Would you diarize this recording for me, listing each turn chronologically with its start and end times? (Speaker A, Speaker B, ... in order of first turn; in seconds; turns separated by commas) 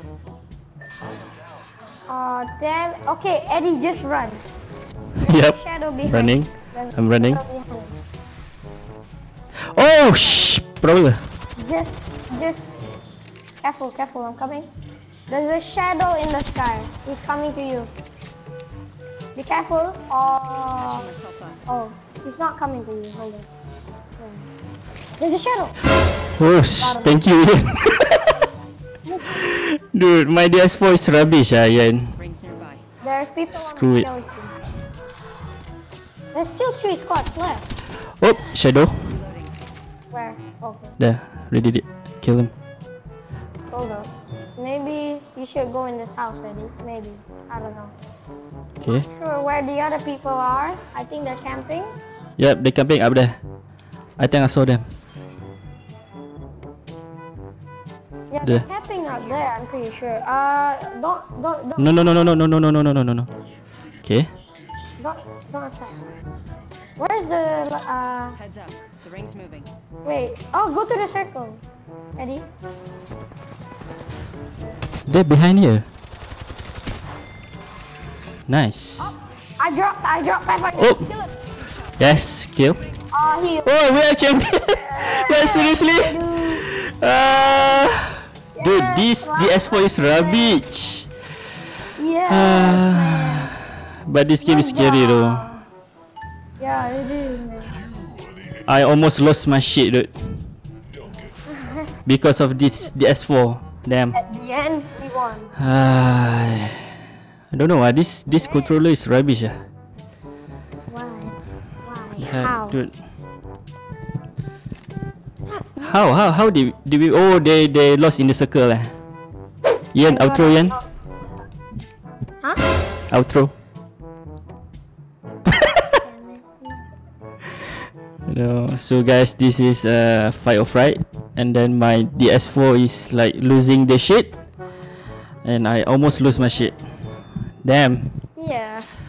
Speaker A: 2.1-4.4, Speaker B: 5.2-7.4, Speaker A: 5.2-8.0, Speaker B: 9.6-11.3, Speaker A: 11.6-12.8, Speaker A: 13.6-14.7, Speaker A: 15.3-17.9, Speaker A: 19.3-21.1, Speaker C: 20.8-21.6, Speaker A: 21.7-23.5, Speaker A: 24.2-24.5, Speaker A: 25.2-25.8, Speaker B: 26.4-28.4, Speaker A: 26.8-27.3, Speaker A: 29.1-29.4, Speaker B: 29.3-32.2, Speaker C: 32.2-32.8, Speaker A: 33.0-34.6, Speaker B: 33.5-34.1, Speaker A: 36.3-37.7, Speaker B: 37.9-39.1, Speaker C: 38.9-39.6, Speaker A: 40.1-41.0, Speaker B: 41.0-42.5, Speaker A: 43.7-47.9, Speaker B: 48.8-49.0, Speaker A: 48.9-52.0, Speaker B: 52.4-53.4, Speaker B: 54.2-54.9, Speaker A: 58.3-62.4, Speaker B: 61.8-63.3, Speaker B: 64.0-64.3, Speaker A: 65.0-66.0, Speaker A: 67.0-68.4, Speaker C: 68.3-69.7, Speaker A: 70.0-71.6, Speaker A: 72.2-72.5, Speaker B: 75.1-75.9, Speaker B: 78.5-79.1, Speaker A: 79.0-81.3, Speaker B: 80.8-81.1, Speaker C: 81.5-82.2, Speaker B: 82.0-82.8, Speaker A: 83.1-83.7, Speaker B: 83.6-91.2, Speaker A: 84.8-86.6, Speaker A: 88.5-90.6, Speaker A: 92.0-93.5, Speaker B: 92.3-95.5, Speaker A: 94.4-95.7, Speaker A: 96.6-97.8, Speaker B: 98.7-100.5, Speaker A: 101.5-101.9, Speaker B: 102.0-104.2, Speaker A: 104.1-105.5, Speaker B: 105.6-107.0, Speaker B: 107.5-109.6, Speaker A: 108.3-108.8, Speaker A: 110.9-112.8, Speaker B: 112.2-113.0, Speaker A: 115.5-116.0, Speaker B: 115.8-118.9, Speaker B: 119.9-120.8, Speaker A: 120.0-120.8, Speaker B: 123.1-123.5, Speaker B: 125.5-125.8, Speaker A: 126.0-126.8, Speaker B: 128.3-134.3, Speaker B: 135.4-136.8, Speaker B: 137.6-138.2, Speaker A: 138.3-139.0